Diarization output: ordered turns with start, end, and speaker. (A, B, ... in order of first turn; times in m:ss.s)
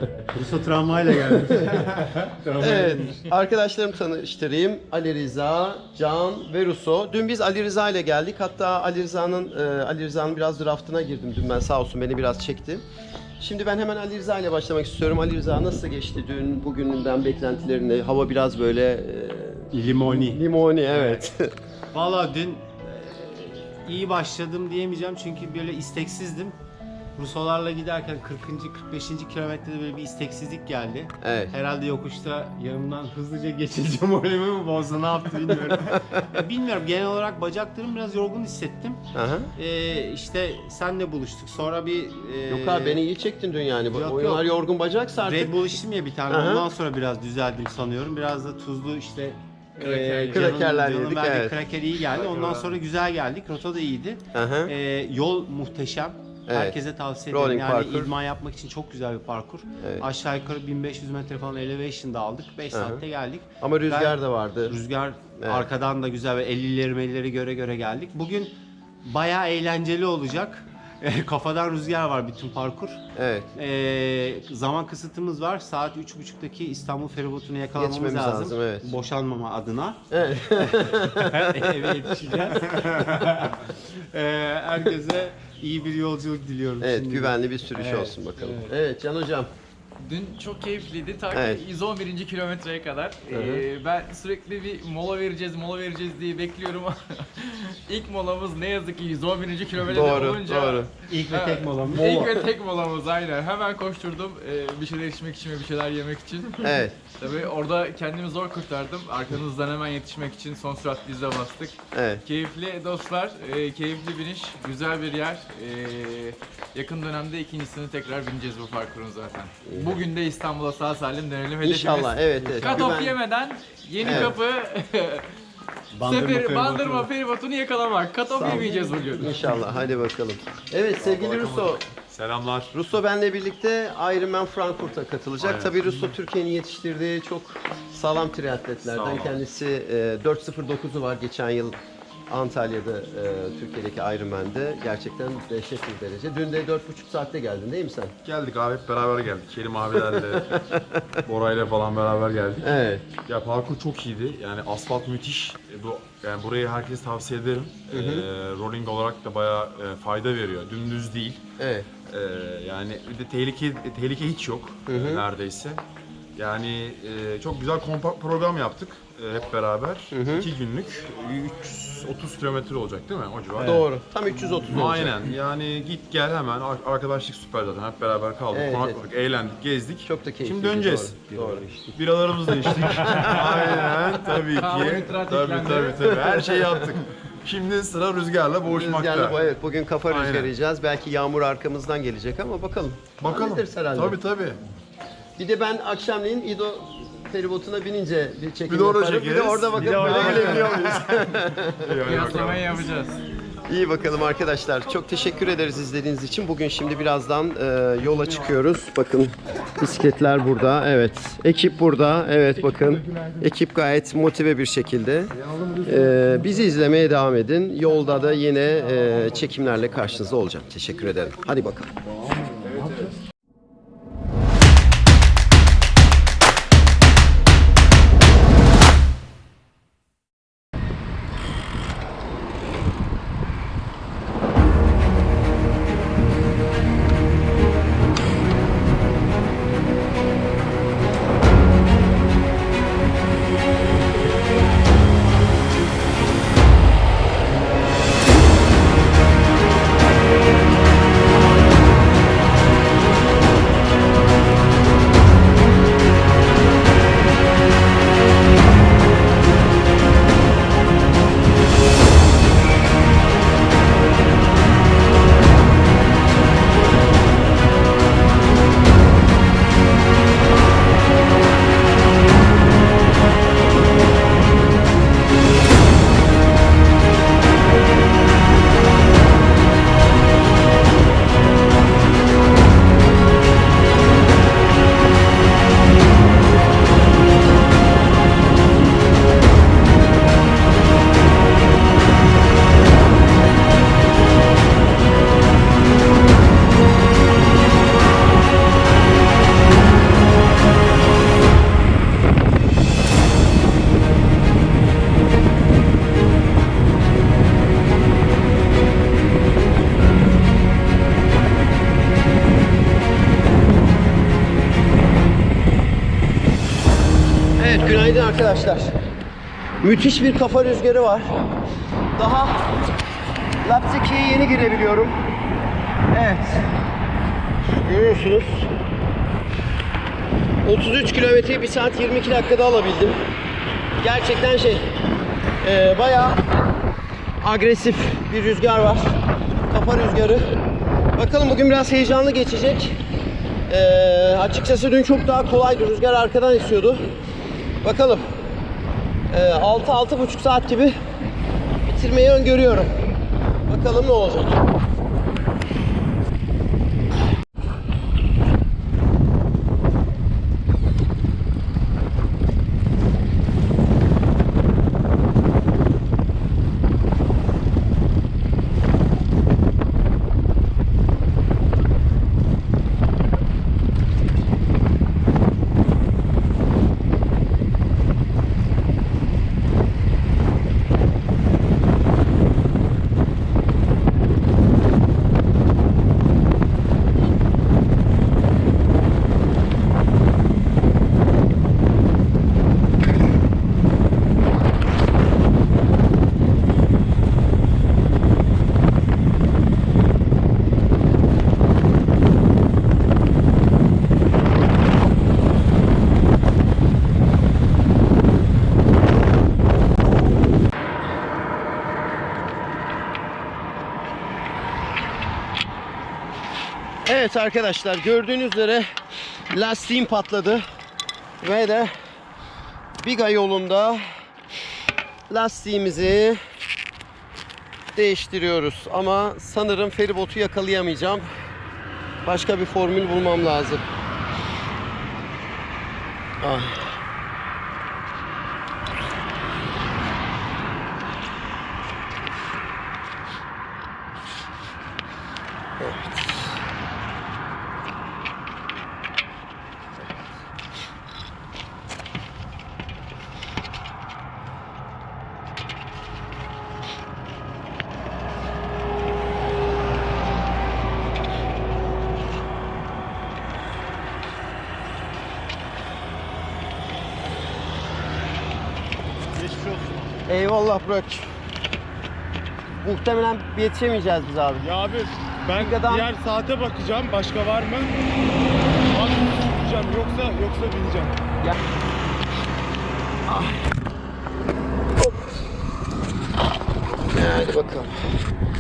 0:00.2-0:03.3 A
0:02.6-0:12.8 B
0:13.4-0:21.5 B
0:19.7-0:21.3 A
0:21.9-0:26.6 A
0:27.2-0:39.0 A
0:31.2-0:31.5 B
0:39.1-0:39.5 B
0:39.6-0:43.0 A
0:42.5-0:46.7 B
0:43.9-0:44.5 A
0:45.2-1:13.0 A
0:49.8-0:50.5 C
0:50.3-0:51.6 B
0:54.3-0:54.7 B
0:56.5-0:56.8 B
0:57.3-0:58.1 B
1:02.7-1:03.0 B
1:03.6-1:04.8 B
1:05.4-1:05.7 B
1:13.2-1:13.5 B
1:13.6-1:20.0 A
1:17.8-1:18.9 B
1:20.1-1:21.8 B
1:20.5-1:28.7 A
1:26.8-1:29.5 B
1:30.0-2:05.3 C
1:31.3-1:31.6 B
1:33.3-1:33.6 B
1:39.8-1:40.9 B
1:41.1-1:42.1 A
1:42.0-1:42.5 B
1:46.6-1:47.0 B
1:51.9-1:52.2 B
1:59.6-2:00.0 B
2:01.6-2:03.2 B
2:02.4-2:02.9 A
2:04.0-2:04.4 B
2:05.9-2:07.1 A
2:06.0-2:09.4 C
2:08.4-2:11.8 B
2:11.0-2:12.7 D
2:12.7-2:21.8 B
2:15.4-2:15.7 D
2:18.8-2:19.4 D
2:22.3-2:28.1 B
2:28.2-2:30.7 D
2:30.0-2:31.0 B
2:31.2-2:32.7 D
2:32.6-2:33.1 B
2:33.2-2:41.4 D
2:37.9-2:38.3 B
2:41.6-2:41.9 B
2:42.1-2:45.8 D
2:44.9-2:45.3 B
2:46.4-2:53.9 D
2:50.1-2:50.5 B
2:53.6-2:55.3 B
2:54.6-3:09.4 D
2:58.5-2:59.0 B
3:00.0-3:01.8 B
3:02.4-3:04.4 B
3:04.5-3:06.0 C
3:06.0-3:07.0 B
3:08.6-3:14.2 B
3:10.1-3:10.5 D
3:13.2-3:14.6 D
3:15.4-3:22.1 B
3:18.7-3:22.8 D
3:20.2-3:20.7 A
3:22.0-3:23.2 C
3:23.7-3:41.9 B
5:17.6-5:18.9 B
5:19.8-5:21.4 B
5:22.2-5:22.7 B
5:23.6-5:25.2 B
5:26.1-5:26.7 B
5:27.7-5:28.7 B
5:30.6-5:33.2 B
5:34.0-5:34.9 B
5:35.6-5:36.4 B
5:37.4-5:39.2 B
5:39.7-5:40.4 B
5:41.2-5:43.0 B
5:43.7-5:47.0 B
5:47.8-5:48.5 B
5:49.3-5:51.0 B
5:51.8-5:52.9 B
5:53.7-5:54.6 B
6:57.1-6:58.9 B
6:59.5-7:00.6 B
7:01.4-7:01.9 B
7:03.0-7:04.1 B
7:05.3-7:06.4 B
7:07.9-7:11.3 B
7:12.2-7:13.8 B
7:16.4-7:16.9 B
7:25.8-7:26.4 B
7:50.3-7:51.3 B
7:52.8-7:54.7 B
7:54.6-7:57.9 E
7:55.6-7:56.1 B
7:58.9-8:01.1 E
8:03.3-8:03.6 B
8:07.1-8:08.0 B